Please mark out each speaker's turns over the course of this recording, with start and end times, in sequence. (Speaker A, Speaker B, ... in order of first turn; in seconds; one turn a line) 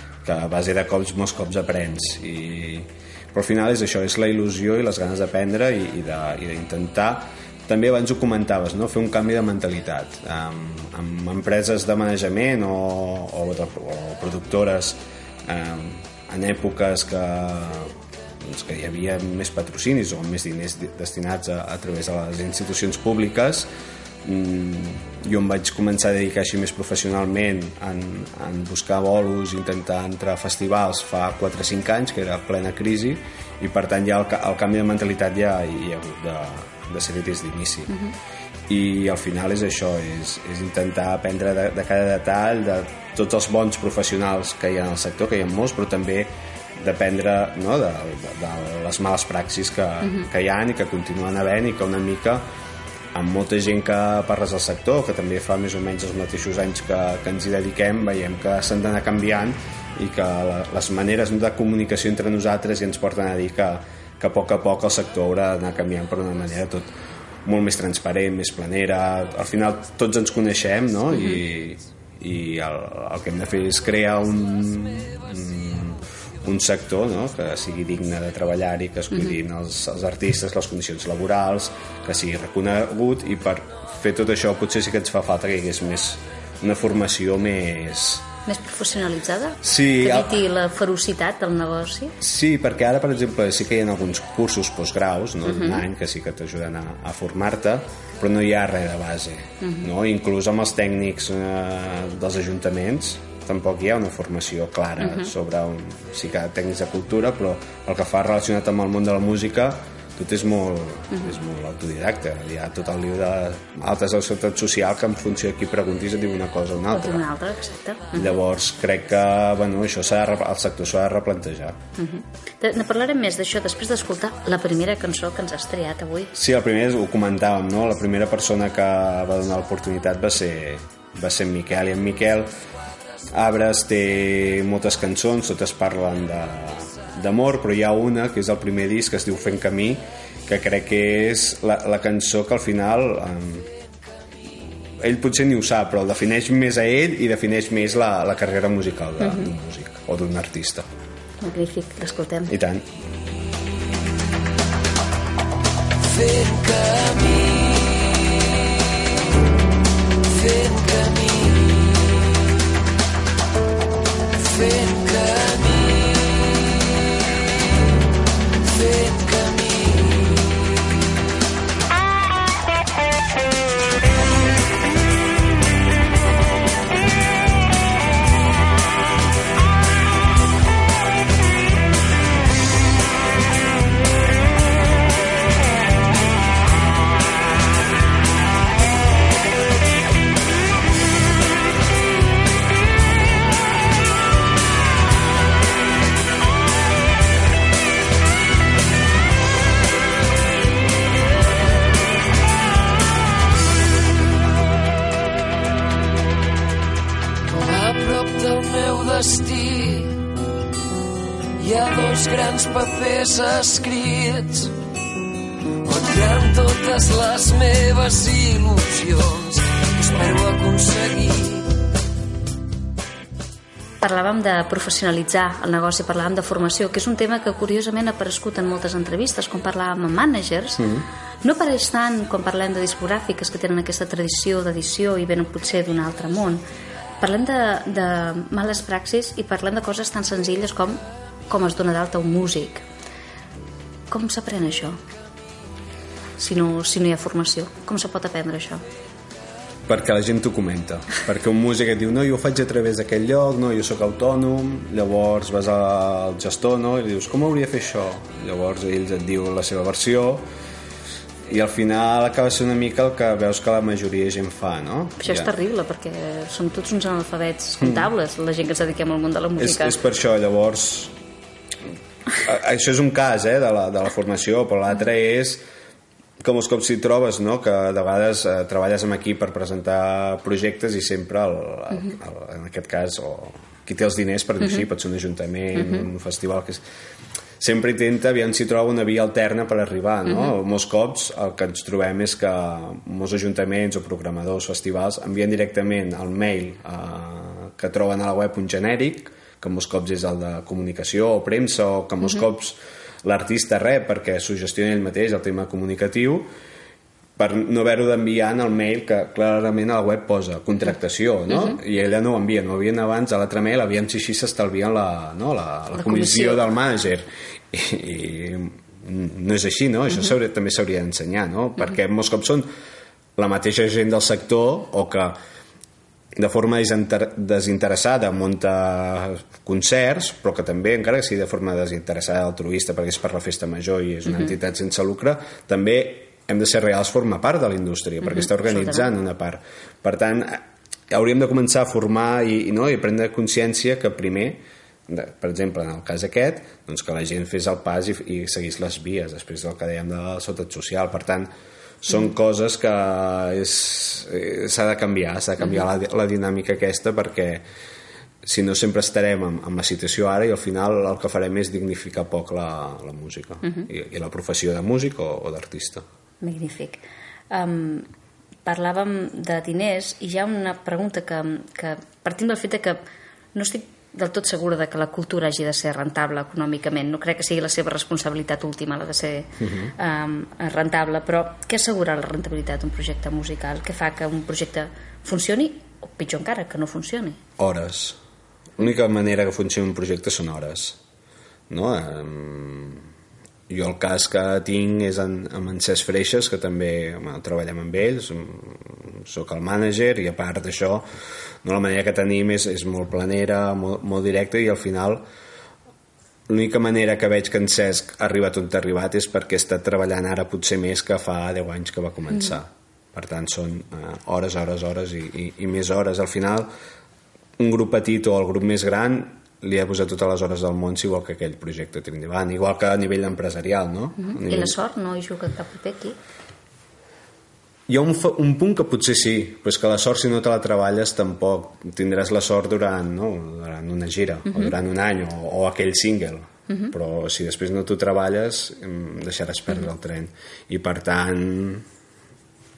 Speaker A: 0.2-23.7
Speaker A: 24.2-38.0
Speaker A: 38.7-52.5
Speaker A: 53.1-66.9
Speaker A: 67.5-88.3
Speaker B: 71.2-71.4
Speaker B: 88.5-92.2
Speaker A: 89.6-90.4
Speaker A: 92.2-117.2
Speaker B: 95.5-95.8
Speaker B: 105.0-105.3
Speaker B: 116.9-118.3
Speaker A: 118.1-121.8
Speaker B: 122.0-126.3
Speaker A: 126.3-132.5
Speaker A: 133.3-143.7
Speaker A: 145.0-150.9
Speaker B: 151.4-152.5
Speaker A: 152.5-152.9
Speaker C: 156.0-158.9
Speaker C: 160.2-162.4
Speaker C: 164.4-167.2
Speaker C: 168.6-170.8
Speaker C: 207.5-210.3
Speaker C: 211.6-214.7
Speaker C: 215.8-221.7
Speaker B: 224.0-230.8
Speaker A: 230.8-231.1
Speaker B: 231.4-236.6
Speaker B: 237.2-242.8
Speaker B: 244.1-245.0
Speaker B: 246.4-248.8
Speaker A: 249.9-260.5
Speaker A: 261.5-265.5
Speaker B: 265.2-270.0
Speaker A: 267.8-268.1
Speaker A: 269.6-271.1
Speaker A: 272.4-275.6
Speaker A: 276.4-286.8
Speaker A: 287.6-306.5
Speaker A: 307.4-322.7
Speaker B: 316.0-316.6
Speaker A: 323.4-325.4
Speaker A: 326.4-351.5
Speaker B: 338.3-339.1
Speaker A: 352.0-357.6
Speaker A: 358.4-366.0
Speaker B: 366.4-368.1
Speaker B: 368.7-373.0
Speaker B: 373.5-387.4
Speaker A: 379.6-379.9
Speaker A: 387.6-388.2
Speaker A: 388.8-391.0
Speaker A: 391.7-393.1
Speaker A: 393.7-401.1
Speaker A: 401.6-405.2
Speaker A: 406.5-416.7
Speaker A: 417.6-424.8
Speaker B: 424.2-426.2
Speaker A: 427.9-441.9